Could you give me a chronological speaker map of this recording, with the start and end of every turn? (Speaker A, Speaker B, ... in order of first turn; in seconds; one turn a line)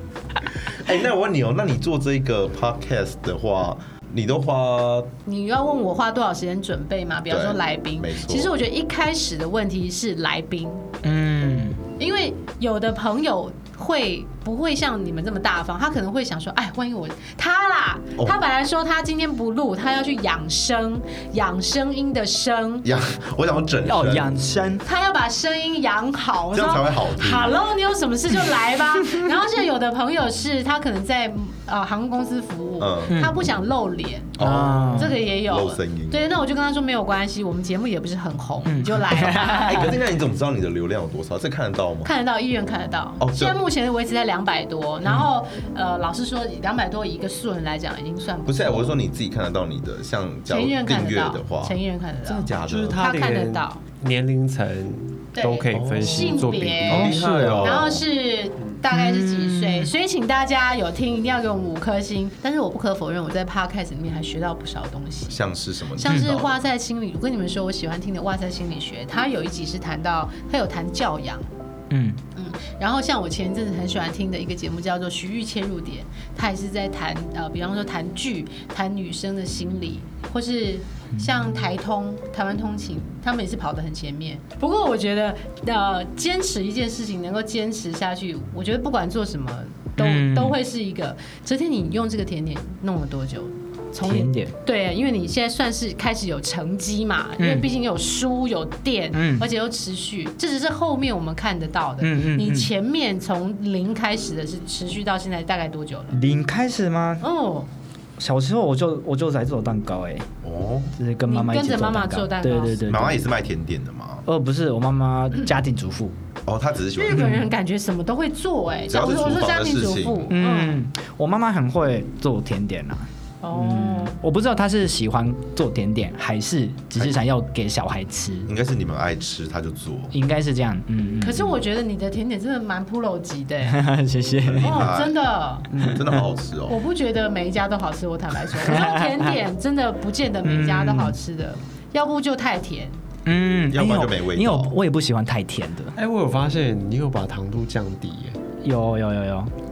Speaker A: 0.7-5.1
Speaker B: 5.2-10.9
Speaker A: 7.3-8.5
Speaker C: 11.0-11.8
Speaker B: 12.0-22.9
Speaker A: 22.8-24.5
Speaker C: 23.8-24.8
Speaker B: 24.8-34.4
Speaker A: 26.5-27.6
Speaker A: 32.8-33.2
Speaker A: 34.4-36.2
Speaker C: 34.4-35.1
Speaker B: 34.9-39.9
Speaker C: 38.6-39.9
Speaker A: 39.5-42.1
Speaker B: 42.0-49.0
Speaker A: 43.2-43.6
Speaker A: 48.5-53.0
Speaker B: 50.5-53.8
Speaker D: 52.6-57.3
Speaker B: 55.3-65.4
Speaker A: 55.7-58.0
Speaker C: 56.9-57.8
Speaker C: 58.9-59.9
Speaker A: 65.2-66.5
Speaker B: 66.0-71.5
Speaker C: 71.9-72.2
Speaker B: 72.3-106.2
Speaker C: 90.0-90.6
Speaker C: 94.0-94.5
Speaker C: 97.4-97.7
Speaker C: 99.1-99.5
Speaker C: 102.0-102.7
Speaker C: 106.1-107.2
Speaker B: 107.2-107.7
Speaker C: 108.2-110.3
Speaker A: 110.4-111.0
Speaker C: 111.0-113.2
Speaker B: 111.2-112.8
Speaker A: 112.8-114.2
Speaker C: 114.2-116.1
Speaker A: 116.5-117.4
Speaker B: 116.9-120.8
Speaker C: 117.1-117.4
Speaker A: 118.9-120.3
Speaker C: 120.3-128.5
Speaker B: 123.4-124.2
Speaker A: 128.4-130.1
Speaker C: 130.1-131.6
Speaker B: 131.2-133.8
Speaker C: 133.6-134.8
Speaker A: 134.4-135.2
Speaker B: 134.6-135.9
Speaker A: 135.7-136.8
Speaker C: 135.7-136.2
Speaker B: 136.7-143.0
Speaker C: 138.6-139.3
Speaker C: 140.4-141.2
Speaker C: 143.2-145.9
Speaker A: 143.7-144.8
Speaker D: 145.9-148.4
Speaker C: 148.6-149.5